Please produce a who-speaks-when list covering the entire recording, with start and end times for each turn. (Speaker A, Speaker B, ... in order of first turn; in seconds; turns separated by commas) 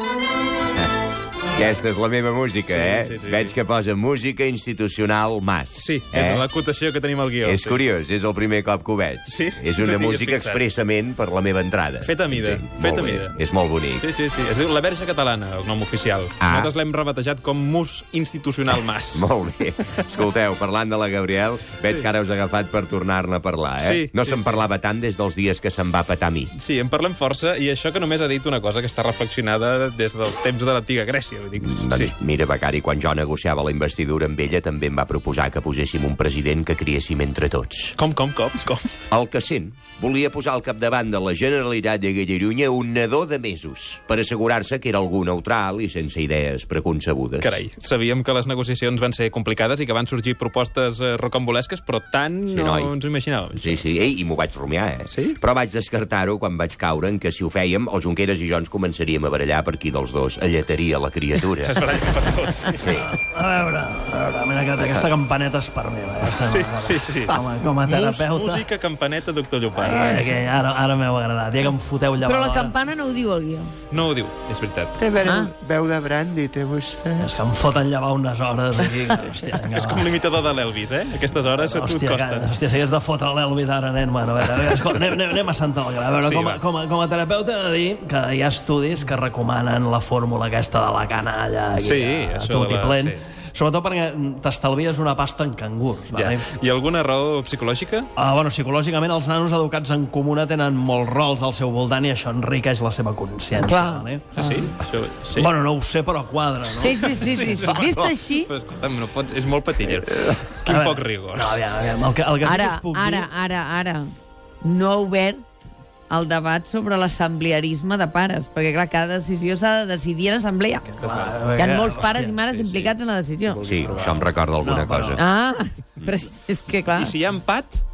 Speaker A: 1.6-6.5, Speaker B: 2.7-3.5, Speaker B: 5.8-7.8, Speaker A: 7.4-14.1, Speaker B: 9.3-10.6, Speaker B: 12.0-13.4, Speaker B: 14.0-19.2, Speaker A: 16.4-16.7, Speaker A: 19.1-26.5, Speaker B: 23.8-24.6, Speaker B: 26.6-32.1, Speaker A: 31.6-38.0, Speaker B: 38.0-38.9, Speaker A: 39.1-47.5, Speaker B: 47.4-53.8, Speaker A: 52.5-52.9, Speaker A: 53.6-61.9, Speaker B: 55.1-55.4, Speaker B: 61.6-63.0, Speaker A: 62.8-63.1, Speaker C: 63.0-68.7, Speaker B: 66.5-70.3, Speaker C: 69.8-72.8, Speaker D: 72.2-73.7, Speaker B: 73.9-75.0, Speaker E: 75.0-77.3, Speaker D: 75.2-75.5, Speaker C: 77.2-80.2, Speaker B: 79.7-82.5, Speaker C: 81.6-96.4, Speaker B: 86.2-86.6, Speaker B: 91.8-93.2, Speaker B: 96.1-98.1, Speaker C: 98.2-104.3, Speaker D: 103.6-104.7, Speaker B: 104.3-105.5, Speaker C: 105.3-107.4, Speaker D: 106.8-108.5, Speaker B: 107.0-111.6, Speaker C: 110.7-113.3, Speaker D: 112.4-115.5, Speaker D: 116.1-120.9, Speaker B: 120.9-121.5, Speaker C: 121.0-122.4, Speaker D: 121.6-123.7, Speaker B: 122.5-122.9, Speaker B: 123.5-124.3, Speaker A: 123.7-125.2, Speaker C: 124.6-125.2, Speaker D: 125.2-127.2, Speaker B: 127.0-127.8